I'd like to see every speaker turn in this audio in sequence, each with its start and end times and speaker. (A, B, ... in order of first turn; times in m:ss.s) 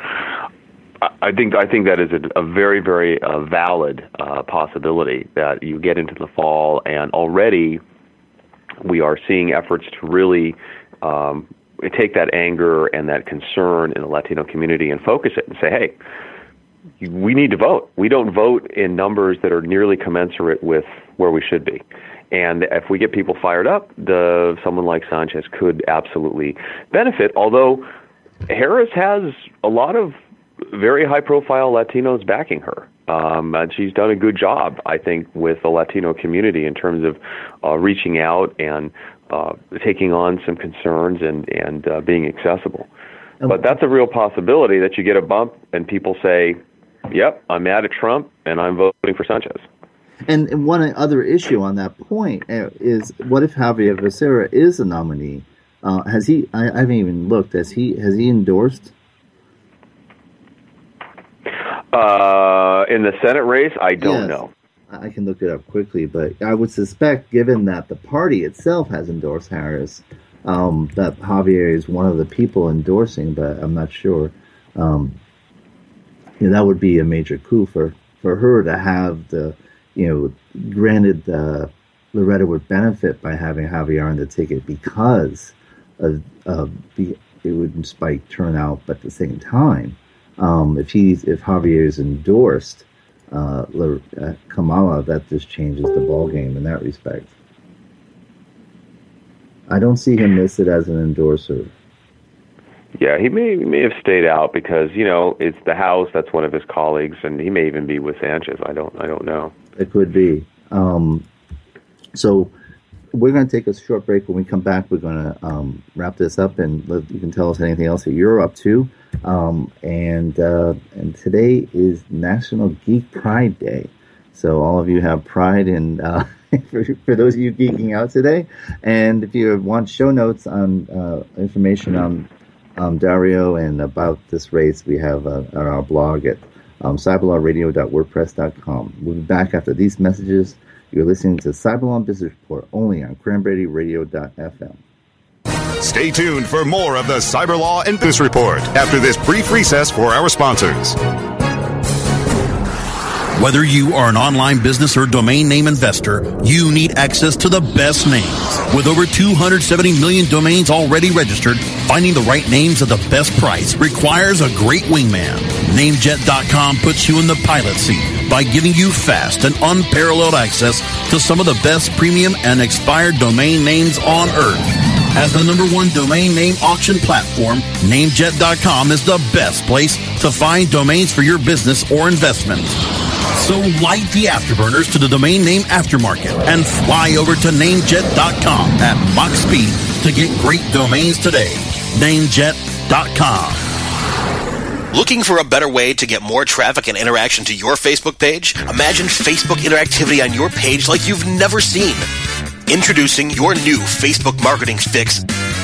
0:01.0-0:07.8 A
0:08.8-0:16.0 A
0:17.0-0:27.9 A
0:28.5-0:42.9 A
0:43.4-0:49.6 A
0:50.3-0:58.9 B
1:01.9-1:04.5 A
1:04.0-1:15.2 B
1:16.4-1:37.3 B
1:39.7-1:41.7 B
1:43.0-1:49.5 A
1:49.8-1:51.2 B
1:52.1-1:52.5 B
1:53.1-2:24.8 B
2:25.8-2:31.0 C
2:33.4-3:02.8 D
3:03.3-3:13.6 D
3:14.9-3:22.1 E
3:22.7-3:25.2 E